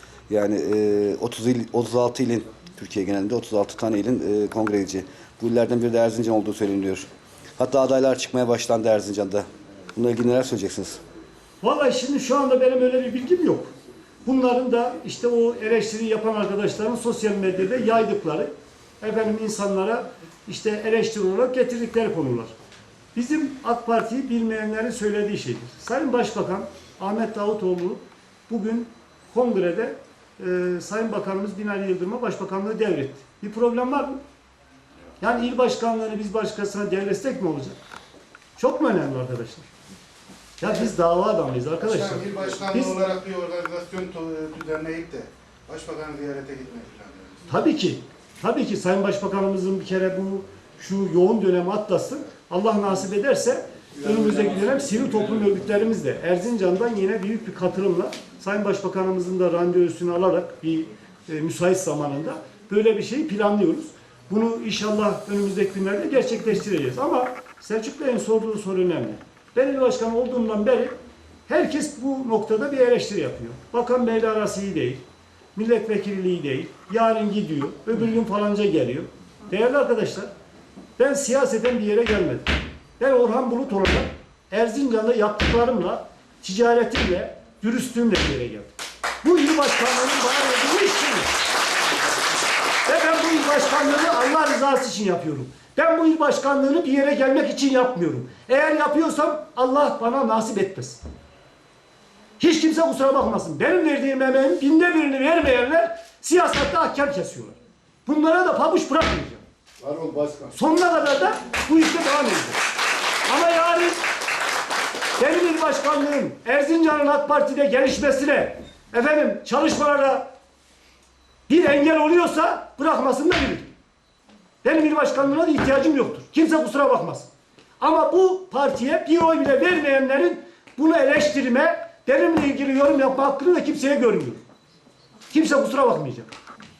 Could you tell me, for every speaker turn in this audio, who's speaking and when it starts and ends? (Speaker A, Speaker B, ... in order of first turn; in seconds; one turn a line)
Speaker A: 0.3-7.1
Speaker A: 7.6-11.0
Speaker B: 11.6-13.7
Speaker B: 14.2-22.5
Speaker B: 23.1-34.2
Speaker B: 35.2-37.7
Speaker B: 38.6-39.7
Speaker B: 40.6-43.0
Speaker C: 41.8-47.5
Speaker B: 47.5-70.9
Speaker B: 71.5-75.0
Speaker B: 75.5-80.3
Speaker B: 81.0-88.7
Speaker B: 89.2-91.3
Speaker B: 92.8-101.0
Speaker B: 102.4-109.4
Speaker C: 109.8-110.4
Speaker A: 110.0-110.4
Speaker B: 110.5-112.6
Speaker B: 113.3-114.0
Speaker B: 115.2-120.3
Speaker B: 121.5-123.7
Speaker B: 124.6-127.3
Speaker B: 127.8-134.4
Speaker B: 135.3-136.3